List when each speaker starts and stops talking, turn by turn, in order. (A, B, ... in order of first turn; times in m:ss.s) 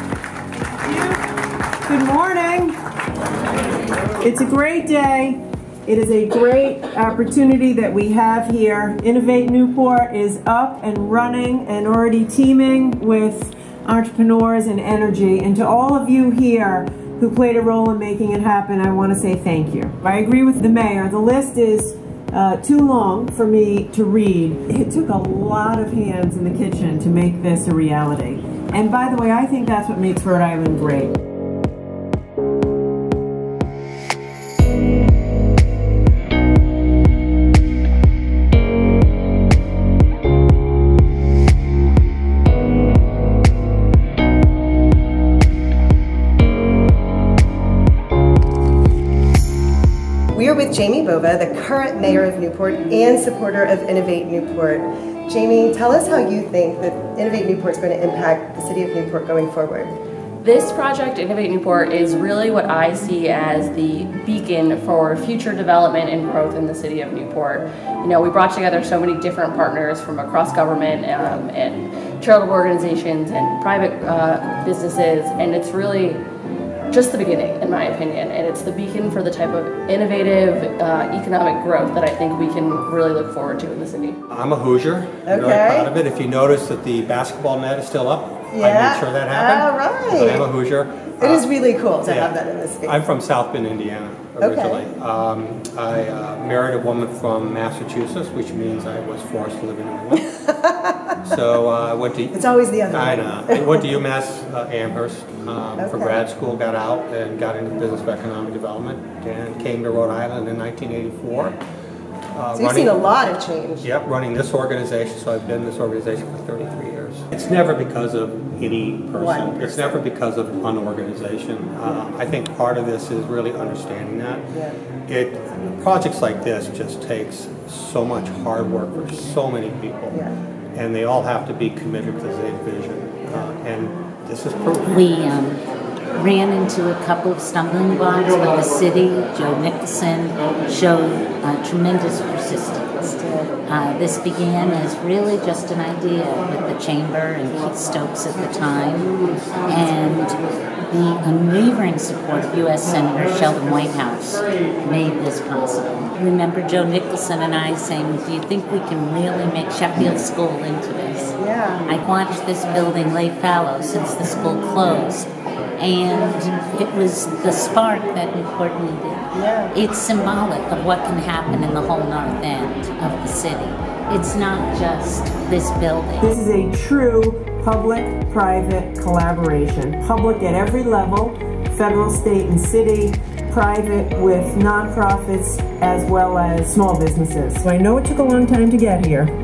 0:00.8-0:01.2 A
0:01.9-0:02.8 A
0:04.2-0:31.2 A
0:50.3-0:59.9 B
1:00.4-1:16.2 C
1:16.9-1:24.2 C
1:24.3-1:31.5 D
1:25.2-1:25.9 B
1:28.5-1:30.5 B
1:31.2-1:33.0 B
1:32.0-1:40.3 D
1:34.4-1:34.9 B
1:40.3-1:41.1 B
1:41.2-1:51.6 D
1:42.3-1:44.0 B
1:45.8-1:46.2 B
1:52.3-1:53.1 D
1:52.5-1:53.9 B
1:53.8-2:04.6 D
1:59.1-2:00.0 B
2:05.0-2:15.0 D
2:10.1-2:10.4 B
2:14.8-2:15.6 E
2:16.2-2:56.3 E
2:41.4-2:41.9 B
2:49.3-2:49.7 B
2:56.2-3:09.3 A